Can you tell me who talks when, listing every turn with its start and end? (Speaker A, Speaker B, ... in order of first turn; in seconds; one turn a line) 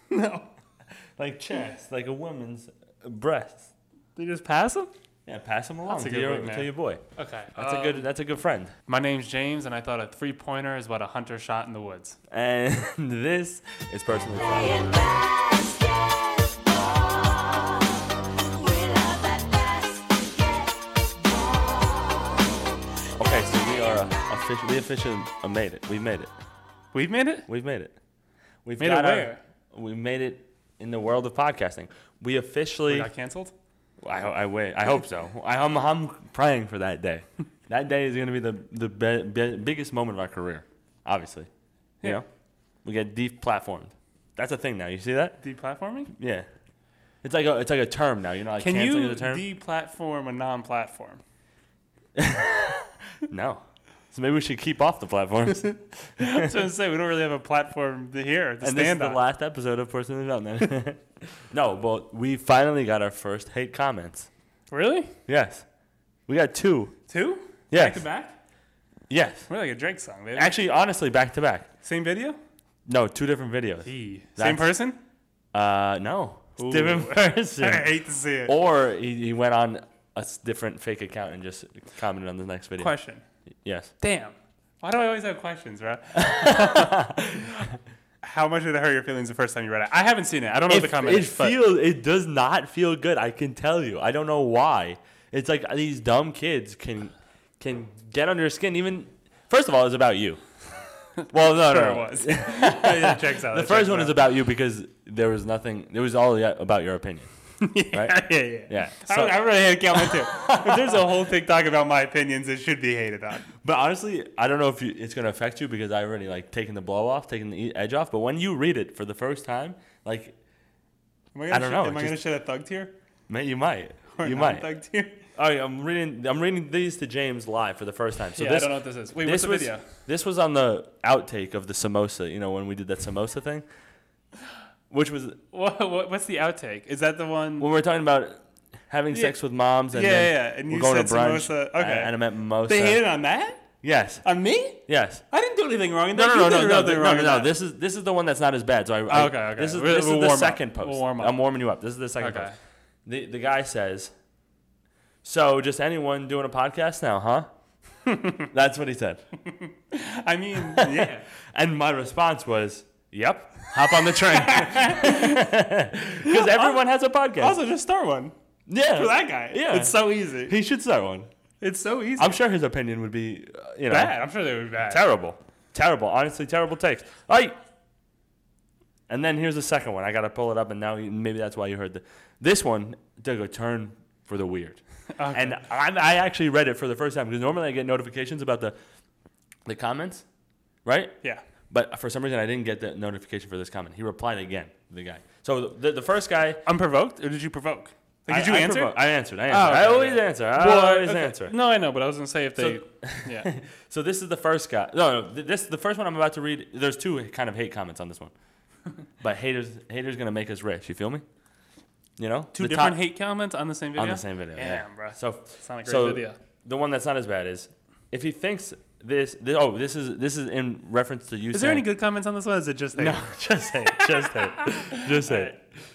Speaker A: 0.1-0.5
Speaker B: 1.2-3.7
Speaker A: 4.2-4.9
Speaker B: 5.2-7.0
Speaker A: 5.9-8.1
Speaker B: 7.5-8.7
Speaker A: 8.9-12.2
Speaker B: 12.3-14.9
Speaker C: 14.3-22.6
Speaker B: 23.2-26.3
Speaker C: 23.6-23.9
Speaker A: 26.9-27.5
Speaker B: 27.5-28.0
Speaker B: 28.6-33.1
Speaker A: 28.8-29.4
Speaker A: 32.9-33.5
Speaker B: 34.0-41.5
Speaker B: 42.8-45.4
Speaker A: 45.4-46.1
Speaker B: 46.1-46.5
Speaker B: 47.2-49.4
Speaker A: 48.6-51.2
Speaker B: 52.2-56.5
Speaker A: 56.2-59.2
Speaker B: 58.6-64.3
Speaker A: 64.7-65.1
Speaker B: 65.3-65.6
Speaker B: 66.3-67.0
Speaker A: 67.1-68.3
Speaker B: 67.7-68.0
Speaker B: 69.1-69.5
Speaker A: 69.5-70.5
Speaker B: 70.3-71.7
Speaker A: 71.8-72.4
Speaker B: 72.8-74.7
Speaker A: 73.8-75.0
Speaker B: 75.5-77.9
Speaker A: 76.6-78.5
Speaker B: 78.5-82.9
Speaker A: 82.8-83.2
Speaker B: 83.6-83.9
Speaker A: 84.0-86.9
Speaker B: 86.1-87.7
Speaker A: 88.2-91.5
Speaker B: 90.7-100.5
Speaker B: 101.3-107.3
Speaker A: 101.3-104.2
Speaker A: 107.6-113.5
Speaker B: 107.9-111.0
Speaker B: 113.6-120.3
Speaker A: 121.3-122.9
Speaker B: 121.5-122.2
Speaker B: 123.3-124.7
Speaker A: 124.2-125.2
Speaker B: 125.3-133.6
Speaker A: 128.3-129.8
Speaker B: 134.9-135.4
Speaker A: 135.5-137.7
Speaker B: 137.6-143.0
Speaker A: 139.1-139.4
Speaker A: 139.9-143.7
Speaker B: 143.8-144.2
Speaker A: 144.2-147.5
Speaker B: 144.8-145.2
Speaker B: 146.1-152.5
Speaker A: 149.1-151.4
Speaker A: 152.2-152.5
Speaker B: 153.1-154.1
Speaker B: 155.2-157.5
Speaker A: 158.1-158.5
Speaker B: 158.5-159.2
Speaker A: 159.4-161.2
Speaker B: 160.8-167.6
Speaker A: 163.8-165.4
Speaker A: 166.2-166.7
Speaker A: 167.4-168.3
Speaker B: 168.7-171.3
Speaker A: 168.9-170.5
Speaker A: 171.6-172.3
Speaker B: 172.2-174.2
Speaker A: 173.9-175.0
Speaker B: 174.8-177.6
Speaker B: 179.1-188.8
Speaker A: 185.2-185.6
Speaker B: 189.7-190.2
Speaker B: 190.8-191.2
Speaker B: 191.7-196.6
Speaker A: 196.6-198.9
Speaker B: 198.3-201.6
Speaker A: 199.5-203.5
Speaker B: 202.6-208.3
Speaker B: 209.2-211.2
Speaker B: 212.2-213.0
Speaker A: 212.5-216.4
Speaker B: 213.9-221.8
Speaker A: 221.5-223.2
Speaker B: 222.9-225.6
Speaker A: 223.8-225.5